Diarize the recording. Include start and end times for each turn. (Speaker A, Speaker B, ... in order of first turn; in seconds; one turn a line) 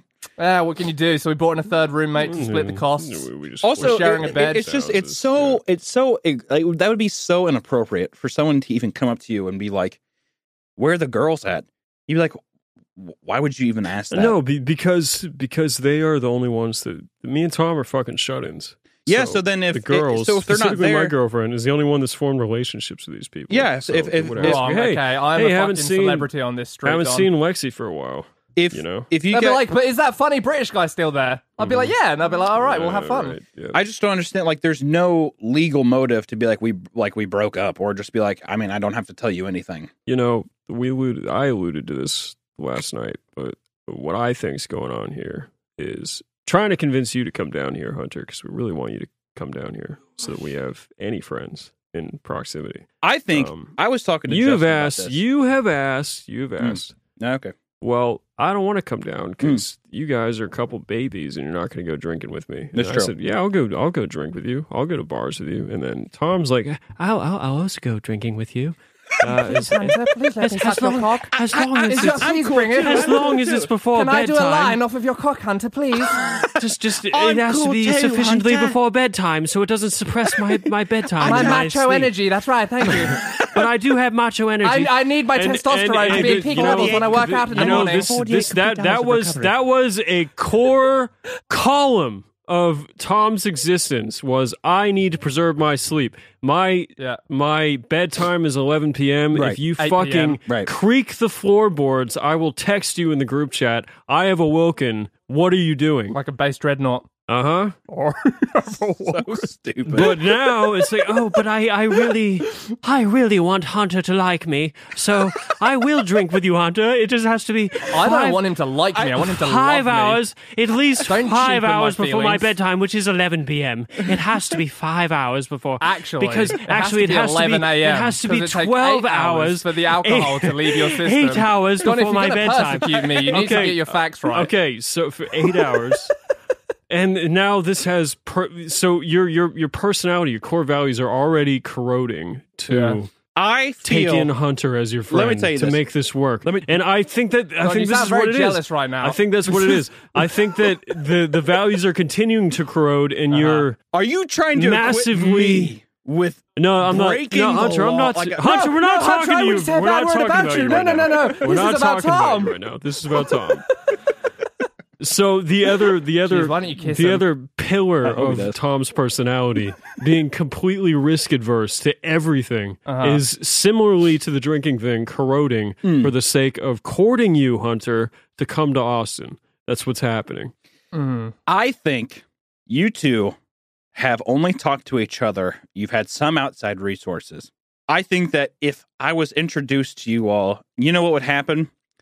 Speaker A: 0.4-3.3
Speaker B: 2.2-5.6
Speaker C: 3.6-10.0
Speaker A: 3.8-4.7
Speaker C: 10.8-12.4
Speaker C: 13.0-14.3
Speaker B: 14.1-26.3
Speaker C: 19.1-21.1
Speaker C: 23.5-24.8
Speaker A: 24.4-27.3
Speaker B: 26.9-29.1
Speaker C: 28.6-29.6
Speaker A: 29.3-33.4
Speaker B: 31.6-33.8
Speaker C: 33.7-39.9
Speaker B: 40.1-53.8
Speaker C: 53.0-55.2
Speaker B: 54.3-57.0
Speaker C: 56.6-57.5
Speaker B: 57.8-74.8
Speaker C: 62.7-63.1
Speaker A: 69.7-73.2
Speaker C: 71.3-73.7
Speaker A: 73.9-76.2
Speaker C: 76.0-78.8
Speaker B: 76.6-82.1
Speaker C: 81.2-81.7
Speaker A: 81.2-83.2
Speaker B: 83.2-106.2
Speaker C: 83.2-83.7
Speaker A: 84.6-88.1
Speaker C: 86.1-89.5
Speaker C: 99.3-99.6
Speaker A: 99.8-100.4
Speaker A: 106.1-107.1
Speaker B: 107.3-107.8
Speaker A: 107.9-109.2
Speaker C: 108.6-110.1
Speaker B: 109.9-118.4
Speaker A: 117.9-120.2
Speaker B: 119.0-136.2
Speaker A: 121.0-122.5
Speaker A: 125.8-134.5
Speaker B: 136.9-143.1
Speaker A: 142.7-143.0
Speaker C: 143.4-144.3
Speaker B: 143.8-153.8
Speaker C: 145.1-145.8
Speaker C: 146.4-146.8
Speaker A: 147.6-149.2
Speaker A: 153.3-153.7
Speaker C: 153.9-158.7
Speaker B: 154.6-155.8
Speaker B: 156.6-163.8
Speaker A: 158.4-162.6
Speaker B: 165.0-180.5
Speaker A: 166.3-167.3
Speaker C: 168.0-168.6
Speaker A: 172.9-173.2
Speaker C: 175.8-176.1
Speaker A: 180.9-181.3
Speaker C: 181.5-183.4
Speaker C: 183.9-191.7